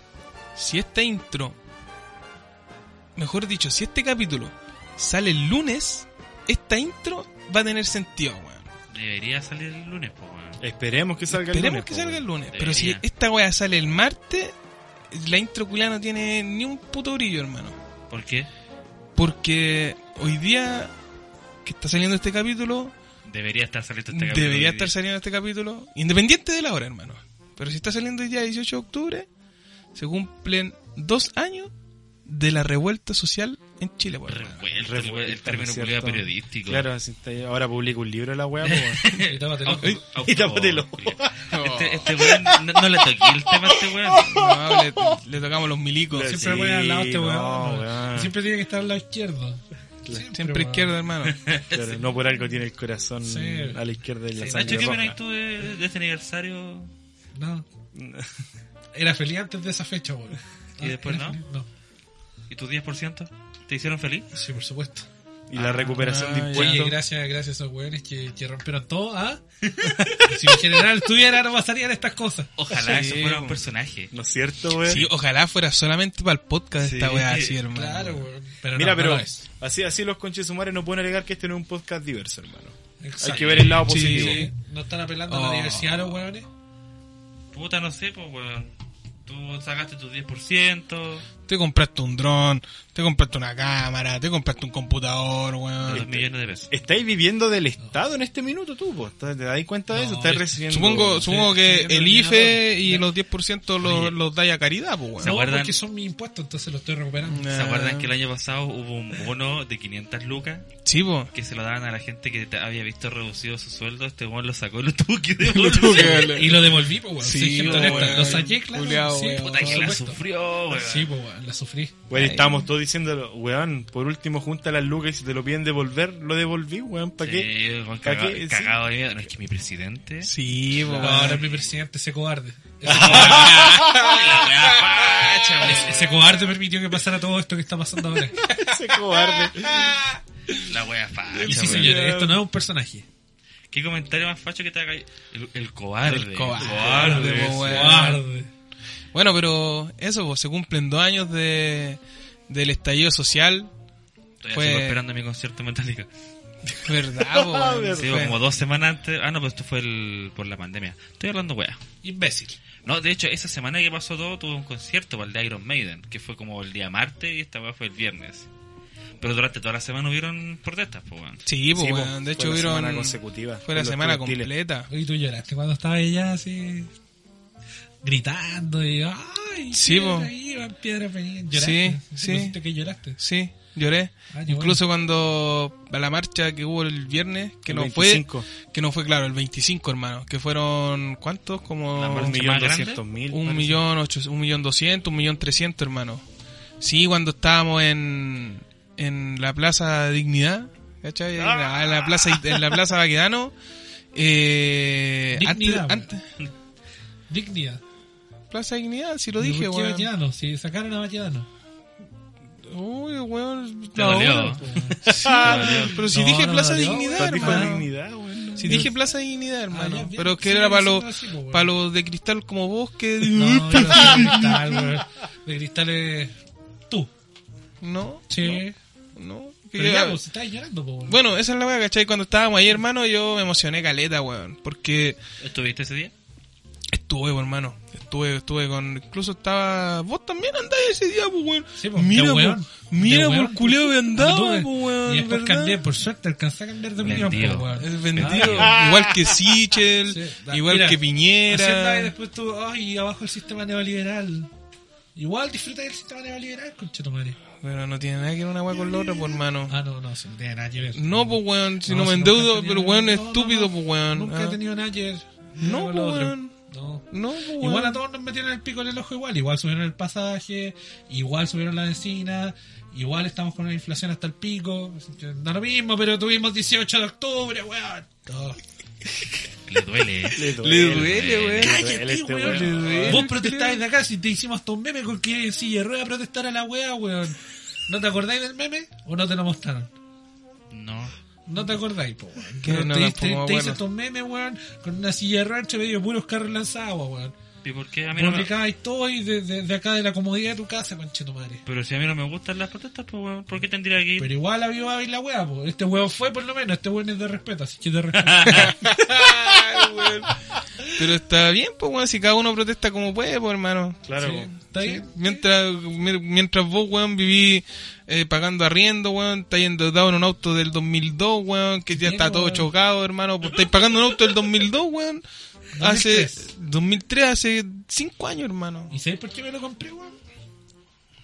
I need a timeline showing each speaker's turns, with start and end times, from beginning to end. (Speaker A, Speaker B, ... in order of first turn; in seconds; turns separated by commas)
Speaker A: 0.5-1.6, Speaker A: 3.1-8.7, Speaker B: 8.9-10.6, Speaker C: 10.6-12.2, Speaker A: 11.3-14.5, Speaker B: 12.5-13.0, Speaker A: 15.1-17.8, Speaker B: 18.1-18.5, Speaker A: 19.1-20.9, Speaker A: 21.6-22.9, Speaker B: 23.2-24.9, Speaker A: 24.1-29.3, Speaker A: 29.9-31.7, Speaker A: 32.2-34.6, Speaker B: 34.2-36.9, Speaker C: 34.8-39.0, Speaker B: 38.6-44.4, Speaker D: 39.2-40.0, Speaker C: 40.1-42.8, Speaker A: 41.5-42.1, Speaker C: 43.4-45.2, Speaker A: 44.3-46.3, Speaker C: 46.1-48.3, Speaker D: 46.2-51.0, Speaker A: 50.3-51.4, Speaker B: 51.2-52.0, Speaker C: 51.7-55.1, Speaker D: 53.2-53.8, Speaker B: 54.4-56.9, Speaker D: 57.3-57.6, Speaker C: 57.9-58.3, Speaker D: 58.9-61.6, Speaker B: 60.8-61.4, Speaker B: 62.5-64.3, Speaker D: 64.3-65.1, Speaker C: 65.5-67.0, Speaker A: 65.5-66.9, Speaker D: 66.5-69.4, Speaker B: 69.7-70.0, Speaker C: 70.0-70.4, Speaker D: 70.2-72.5, Speaker B: 72.6-74.1, Speaker A: 72.8-73.6, Speaker C: 74.1-75.1, Speaker A: 74.8-78.3, Speaker C: 76.8-77.3, Speaker B: 77.2-77.6, Speaker D: 77.7-79.4, Speaker C: 78.7-84.5, Speaker D: 83.0-86.5, Speaker A: 83.8-84.5, Speaker A: 85.3-86.1, Speaker B: 87.5-88.7, Speaker B: 89.2-91.3, Speaker A: 91.5-96.3, Speaker B: 95.8-96.7, Speaker C: 96.7-101.4, Speaker D: 99.9-103.1, Speaker A: 100.2-105.4, Speaker B: 103.8-104.1, Speaker B: 105.2-105.7, Speaker D: 105.2-107.5, Speaker A: 107.2-108.1, Speaker B: 107.5-110.7, Speaker A: 110.8-111.3, Speaker B: 111.3-116.5, Speaker A: 115.4-120.0, Speaker D: 116.2-122.0, Speaker C: 117.7-118.4, Speaker B: 117.7-118.1, Speaker B: 119.4-121.1, Speaker C: 122.1-127.5, Speaker A: 122.1-122.7, Speaker B: 127.2-131.6, Speaker C: 128.0-128.8, Speaker A: 130.2-131.4, Speaker D: 131.0-133.6, Speaker B: 132.8-136.1, Speaker C: 132.8-134.1, Speaker A: 132.9-136.0, Speaker D: 135.6-138.4, Speaker A: 138.3-140.6, Speaker C: 138.4-139.9, Speaker B: 140.5-142.0, Speaker A: 141.3-142.4, Speaker D: 141.4-143.1, Speaker B: 143.7-148.0, Speaker A: 146.0-148.2, Speaker C: 146.6-147.6, Speaker D: 146.8-148.5, Speaker A: 149.1-153.7, Speaker B: 154.4-156.1, Speaker A: 154.5-155.0, Speaker A: 156.7-158.4, Speaker C: 157.2-158.4, Speaker B: 157.9-161.8, Speaker D: 162.0-162.6, Speaker B: 162.8-168.5, Speaker B: 169.2-171.4, Speaker A: 171.4-174.9, Speaker C: 171.7-174.5, Speaker D: 174.9-176.9, Speaker D: 178.0-183.2, Speaker A: 179.7-180.3, Speaker A: 181.5-182.5, Speaker A: 183.2-192.4, Speaker D: 184.3-184.8, Speaker C: 187.7-188.5, Speaker B: 191.9-193.0, Speaker C: 192.1-193.8, Speaker A: 193.3-196.2, Speaker A: 196.8-203.5, Speaker C: 201.3-202.8, Speaker A: 204.1-206.2, Speaker D: 205.3-206.1, Speaker D: 207.3-207.8, Speaker A: 208.5-210.1, Speaker D: 209.4-211.5, Speaker A: 212.6-217.8, Speaker B: 213.9-214.7, Speaker D: 214.5-215.0, Speaker C: 215.0-216.0, Speaker B: 215.4-216.1, Speaker D: 215.8-217.8, Speaker C: 217.1-218.9, Speaker A: 218.6-224.8, Speaker D: 219.7-221.7, Speaker D: 223.3-226.3, Speaker C: 223.9-224.8, Speaker A: 227.8-228.6, Speaker D: 228.3-228.8, Speaker A: 229.2-230.2, Speaker D: 229.8-231.2, Speaker A: 231.1-235.2, Speaker B: 235.4-236.1, Speaker A: 236.9-245.8, Speaker D: 241.7-248.7, Speaker B: 247.0-248.7, Speaker A: 247.8-252.1, Speaker C: 248.4-249.4, Speaker D: 250.1-254.5, Speaker D: 255.1-257.4, Speaker A: 257.6-259.7, Speaker D: 258.9-278.6, Speaker A: 260.9-264.6, Speaker A: 265.6-266.5, Speaker A: 267.1-268.0, Speaker B: 279.7-281.7, Speaker C: 280.3-283.2, Speaker A: 280.5-281.8, Speaker D: 281.6-289.9, Speaker A: 282.4-283.8, Speaker B: 290.7-291.1, Speaker D: 291.5-297.3, Speaker A: 292.6-293.8, Speaker B: 297.6-298.5, Speaker D: 298.1-301.6, Speaker B: 301.6-304.3, Speaker D: 304.2-308.8, Speaker B: 308.2-308.7, Speaker A: 308.5-310.4, Speaker A: 310.9-325.2, Speaker C: 314.0-314.5, Speaker D: 314.2-315.4, Speaker D: 321.9-322.7, Speaker D: 325.7-326.5, Speaker A: 325.8-328.9, Speaker D: 328.9-330.1